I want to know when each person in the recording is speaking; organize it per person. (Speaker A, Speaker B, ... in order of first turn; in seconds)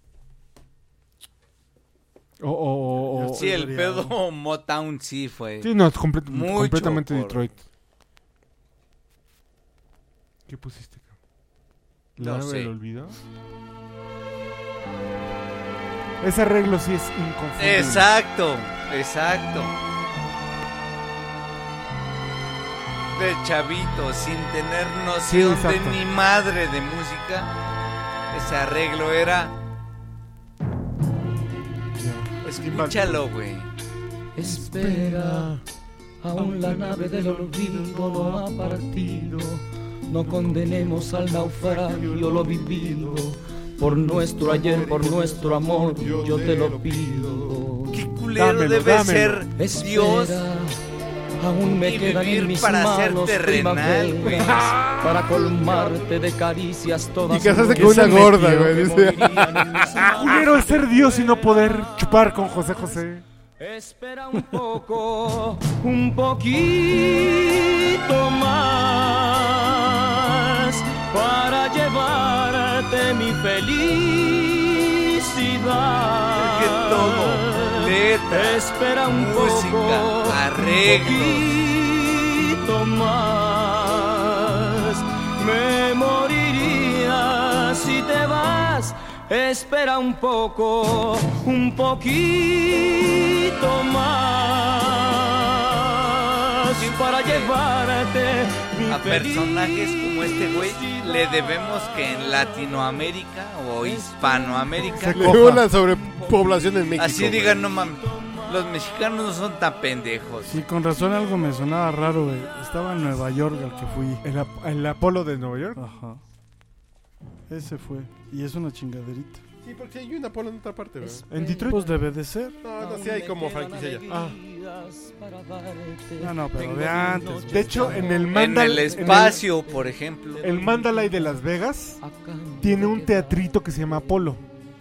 Speaker A: 2.4-3.5, 5.6-7.6, 10.5-11.1, 12.2-13.2, 16.2-18.1, 25.2-26.0, 31.9-33.2, 34.6-35.5, 36.4-39.4, 40.2-42.4, 48.3-49.5, 54.2-55.4, 57.8-58.2, 60.0-63.2, 104.9-105.6, 114.2-115.8, 121.3-121.8, 124.1-124.4, 127.5-129.4, 130.4-132.0, 132.6-134.4
Speaker B: 3.0-4.2, 110.5-114.2, 115.8-116.2, 117.5-119.4, 121.7-122.6, 126.2-128.1
Speaker C: 3.3-7.4, 12.2-12.7, 17.6-19.7, 23.1-27.5, 28.3-29.5, 32.4-33.7, 47.9-50.4, 51.7-54.6, 76.3-81.5, 96.8-97.5, 98.9-105.6, 107.0-110.6, 128.3-130.4
Speaker D: 34.4-35.5, 36.2-48.0, 49.5-50.8, 51.4-63.0, 63.6-101.5, 103.8-104.9, 108.0-108.4, 121.0-122.0, 122.7-131.3, 132.0-133.6
Speaker E: 41.8-43.1, 44.0-47.6, 57.3-59.5, 105.1-107.7, 119.6-121.2, 122.6-124.1